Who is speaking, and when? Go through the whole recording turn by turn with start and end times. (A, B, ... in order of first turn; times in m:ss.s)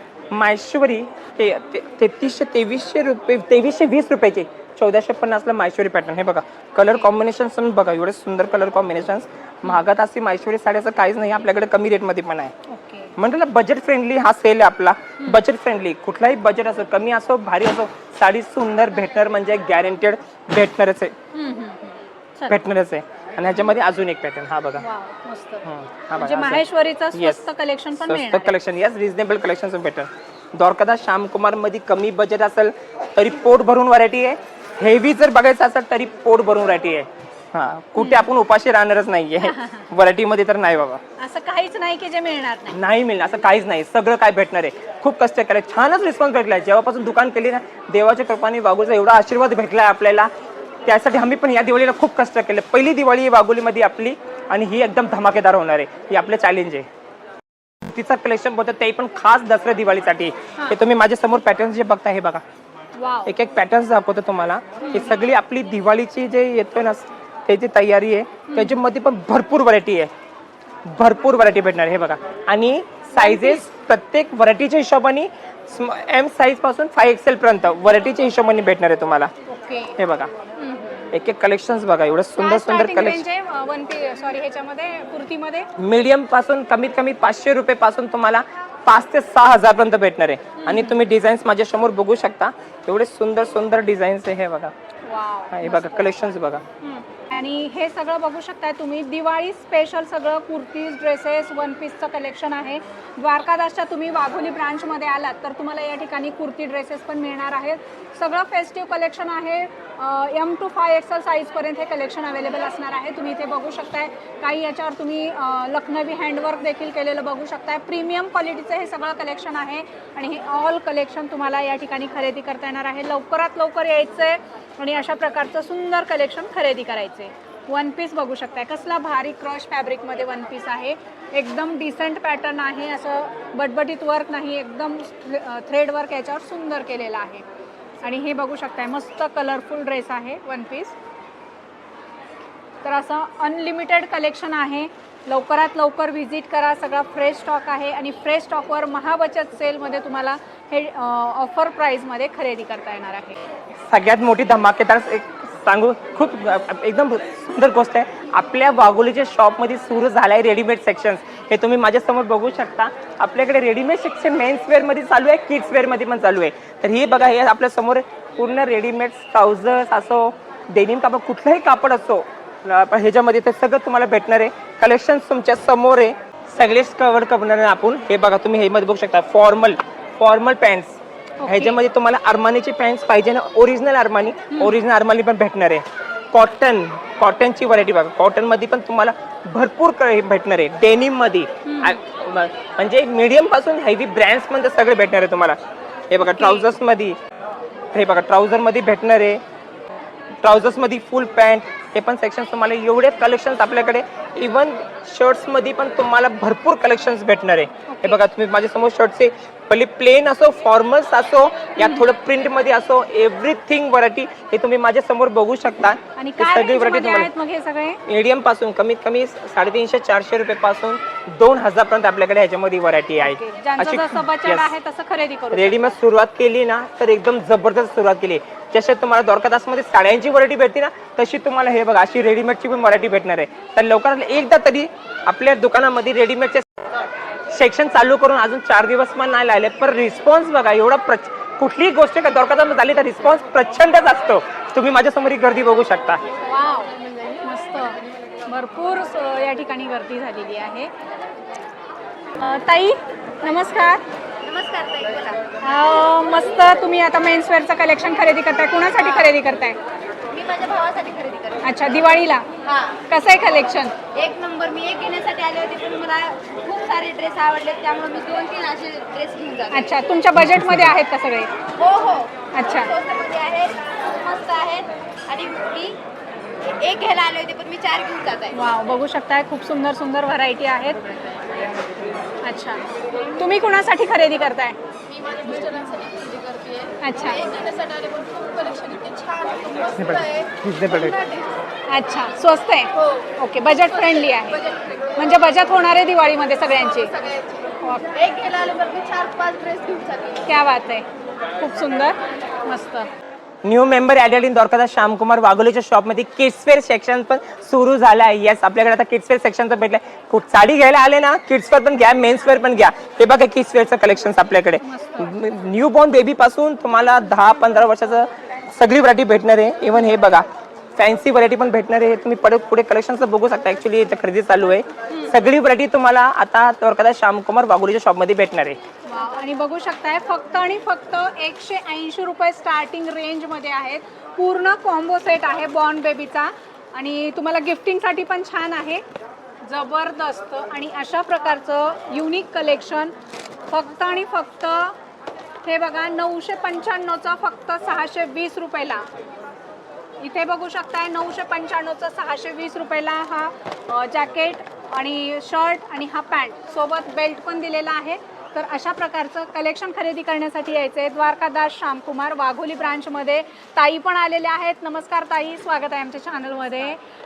0:00.3-0:12.5 A
0:12.7-0:13.1 B
0:13.2-0:21.1 A
0:21.3-0:22.6 B
0:22.4-0:24.8 A
0:24.8-0:25.6 B
0:25.6-0:27.5 A
0:26.2-0:28.6 B
0:28.0-0:41.0 A
0:38.0-0:38.3 B
0:39.4-0:39.8 B
0:41.2-0:42.8 B
0:42.7-0:50.3 A
0:50.8-0:56.8 A
0:57.8-1:02.4 A
1:03.0-1:03.3 B
1:03.2-1:10.1 A
1:04.8-1:05.2 B
1:08.5-1:08.8 B
1:10.8-1:19.3 A
1:13.1-1:13.6 B
1:19.4-1:19.9 B
1:20.0-1:20.3 A
1:20.6-1:21.1 B
1:21.1-1:23.2 A
1:22.4-1:25.7 B
1:25.8-1:34.7 A
1:30.6-1:31.0 B
1:35.0-2:17.4 B
1:35.5-1:36.6 A
2:18.0-2:20.9 B
2:22.8-2:33.4 B
2:33.9-3:15.6 A
3:01.4-3:01.8 B
3:04.5-3:04.8 B
3:11.6-3:12.0 B
3:16.1-3:17.2 A
3:16.3-3:16.7 B
3:17.9-3:19.4 A
3:20.4-3:37.3 A
3:27.9-3:28.2 B
3:36.2-3:38.0 B
3:38.0-3:44.7 A
3:43.2-3:45.9 B
3:45.5-3:56.7 A
3:57.5-4:06.2 A
4:06.4-4:10.9 B
4:12.4-4:14.0 B
4:14.4-4:15.4 C
4:15.6-4:19.8 B
4:19.0-4:19.4 C
4:20.3-4:22.0 C
4:21.6-4:22.5 B
4:22.6-4:23.0 C
4:23.1-4:24.0 B
4:24.1-4:30.0 C
4:29.7-4:31.5 B
4:31.7-4:36.0 C
4:32.5-4:32.9 B
4:36.6-4:38.6 C
4:38.5-4:41.7 B
4:42.4-4:44.8 B
4:45.1-4:50.5 C
4:47.0-4:47.5 B
4:49.9-4:51.4 A
4:51.0-4:51.6 C
4:51.9-4:57.3 B
4:57.3-5:00.5 C
4:57.8-4:58.2 B
5:00.4-5:03.1 B
5:03.6-5:28.8 A
5:14.8-5:15.3 B
5:29.0-5:39.0 B
5:39.6-5:43.1 B
5:43.7-5:45.0 B
5:45.6-5:49.0 B
5:50.2-6:07.0 B